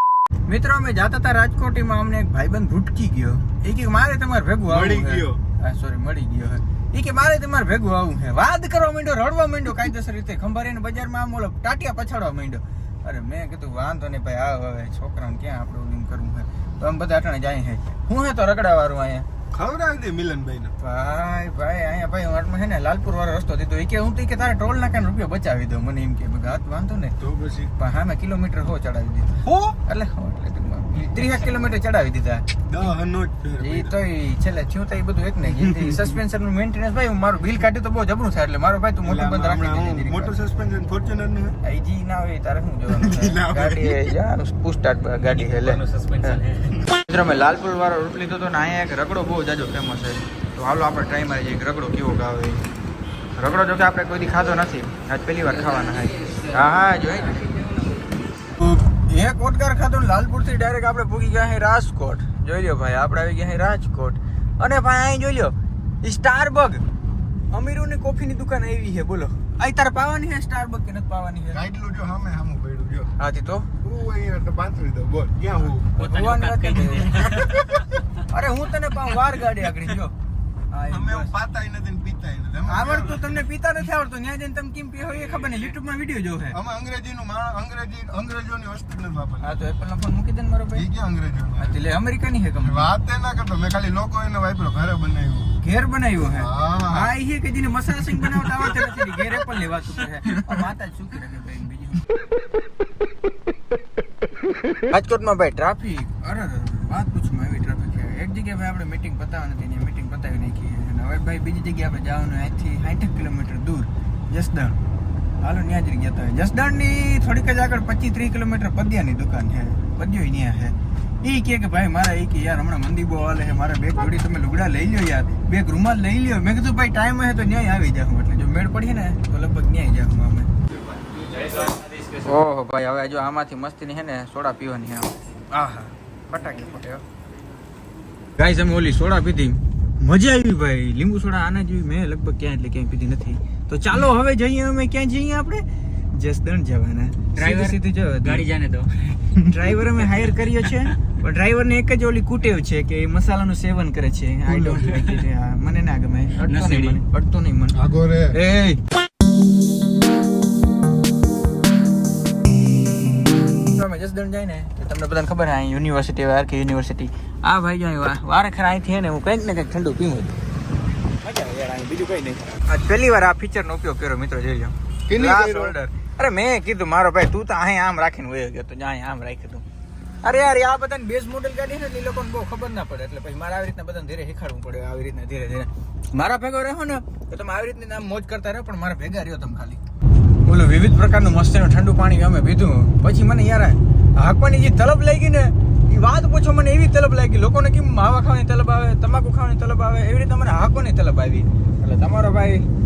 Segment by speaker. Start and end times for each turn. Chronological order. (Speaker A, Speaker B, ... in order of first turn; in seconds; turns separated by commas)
Speaker A: 0.5-19.3, Speaker B: 4.7-5.4, Speaker B: 19.5-20.7, Speaker A: 20.8-27.2, Speaker B: 27.2-27.7, Speaker A: 27.8-32.5, Speaker B: 29.4-29.7, Speaker B: 32.7-33.9, Speaker A: 33.6-40.4, Speaker B: 35.5-36.1, Speaker B: 39.0-41.6, Speaker A: 41.6-52.6, Speaker B: 42.9-44.1, Speaker C: 45.3-46.8, Speaker A: 53.4-57.6, Speaker A: 58.6-66.8, Speaker A: 67.5-71.7, Speaker B: 71.5-73.1, Speaker A: 73.2-73.7, Speaker B: 73.8-75.9, Speaker C: 76.0-77.8, Speaker A: 76.0-80.1, Speaker A: 80.7-81.3, Speaker B: 80.9-83.4, Speaker A: 82.7-86.6, Speaker B: 86.5-89.5, Speaker A: 89.4-90.9, Speaker B: 90.7-91.8, Speaker A: 91.5-92.9, Speaker B: 92.6-95.5, Speaker A: 95.6-102.0, Speaker B: 96.4-97.1, Speaker B: 98.1-98.7, Speaker A: 104.8-114.8, Speaker A: 115.4-130.5, Speaker C: 131.2-132.1, Speaker A: 132.1-137.0, Speaker A: 138.4-148.5, Speaker C: 147.3-149.2, Speaker A: 149.3-158.8, Speaker B: 154.5-155.1, Speaker C: 156.4-157.0, Speaker B: 157.8-158.4, Speaker A: 163.6-170.4, Speaker A: 171.2-179.7, Speaker B: 175.1-175.8, Speaker A: 180.2-189.8, Speaker A: 190.4-202.7